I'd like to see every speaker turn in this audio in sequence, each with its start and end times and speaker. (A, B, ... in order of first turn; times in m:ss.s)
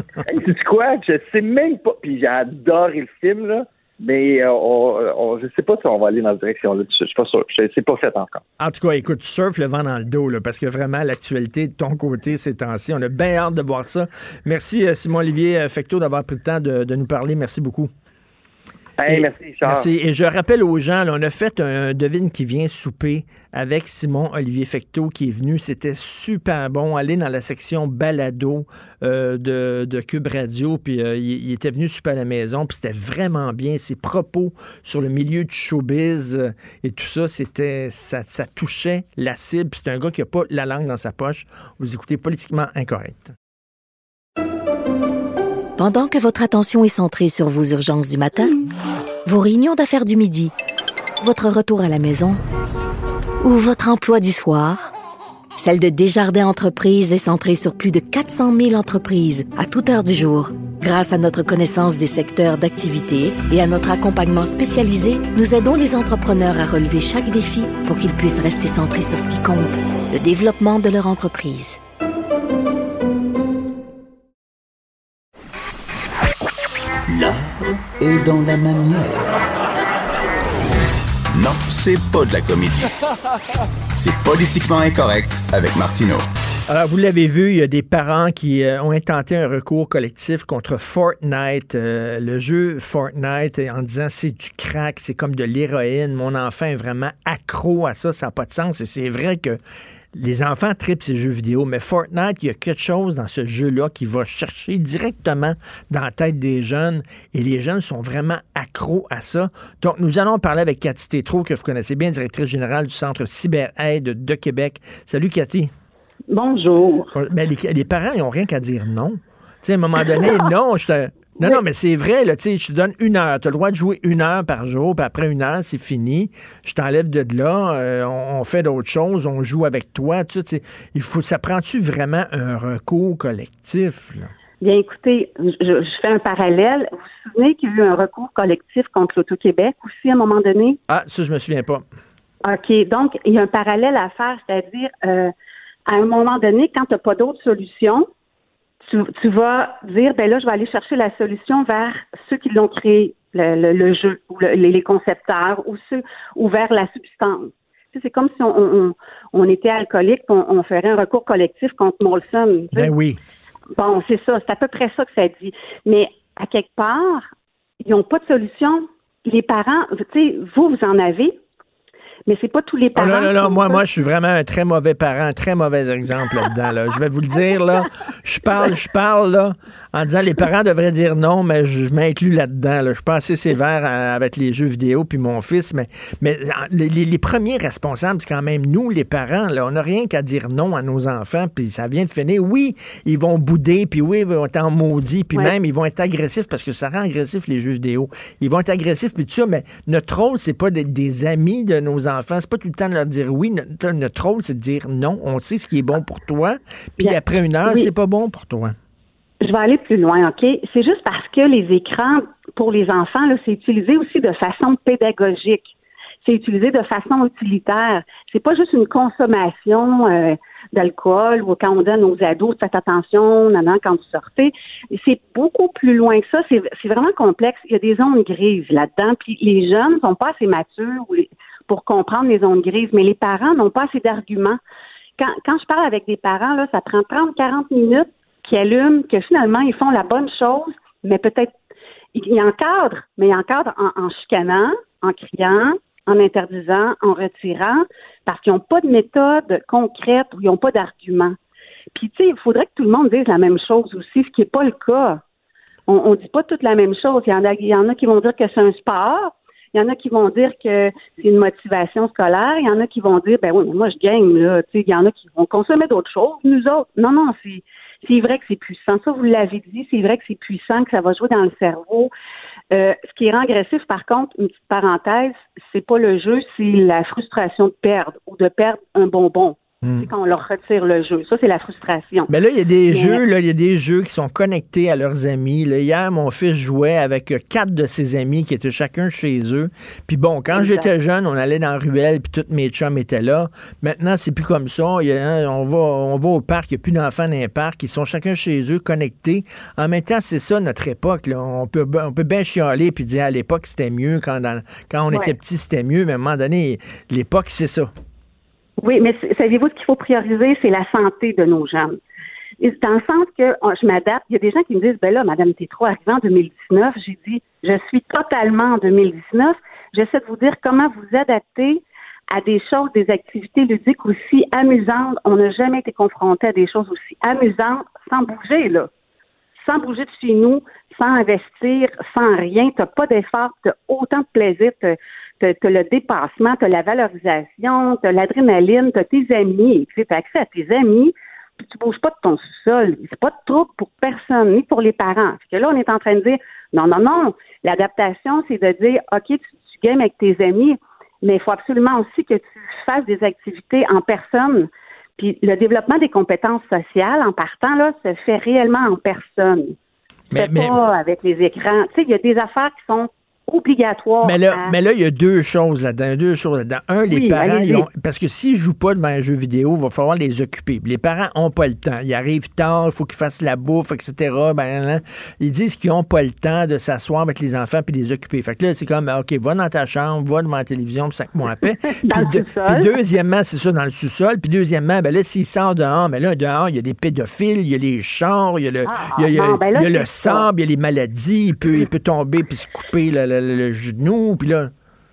0:00.3-0:08.4 A
0:08.6-0:17.9 B
0:19.0-0:19.9 A
0:19.1-0:43.3 B
0:45.8-0:48.6 C
0:49.2-0:50.5 C
0:51.2-0:52.4 C
0:53.4-0:54.9 C
0:55.6-1:11.8 C
1:17.1-1:19.4 D
1:21.3-1:22.9 D
1:24.0-1:26.2 D
1:26.7-1:39.6 B
1:40.1-1:55.7 B
1:56.3-1:57.1 E
1:57.1-2:14.3 B
2:14.6-2:20.8 E
2:20.9-2:21.8 B
2:22.4-2:25.3 E
2:25.9-2:28.1 E
2:28.8-2:42.9 E
2:42.7-2:43.2 B
2:43.7-2:47.3 E
2:47.8-2:51.4 E
2:52.2-2:53.8 E
2:52.9-3:28.8 B
3:27.0-3:27.9 E
3:29.4-3:54.6 E
3:55.2-4:01.5 E
4:02.1-4:11.4 E
4:11.9-4:15.2 E
4:15.9-4:32.1 E
4:32.7-4:42.3 E
4:39.8-4:40.1 B
4:42.3-5:07.9 B
4:42.9-4:43.2 E
4:50.5-4:50.9 E
5:08.8-5:12.0 E
5:12.6-5:28.9 E
5:29.6-5:59.8 E
6:00.3-6:00.8 B
6:00.4-6:04.7 E
6:04.2-6:34.7 B
6:07.1-6:07.9 E
6:22.0-6:22.9 E
6:28.8-6:30.5 E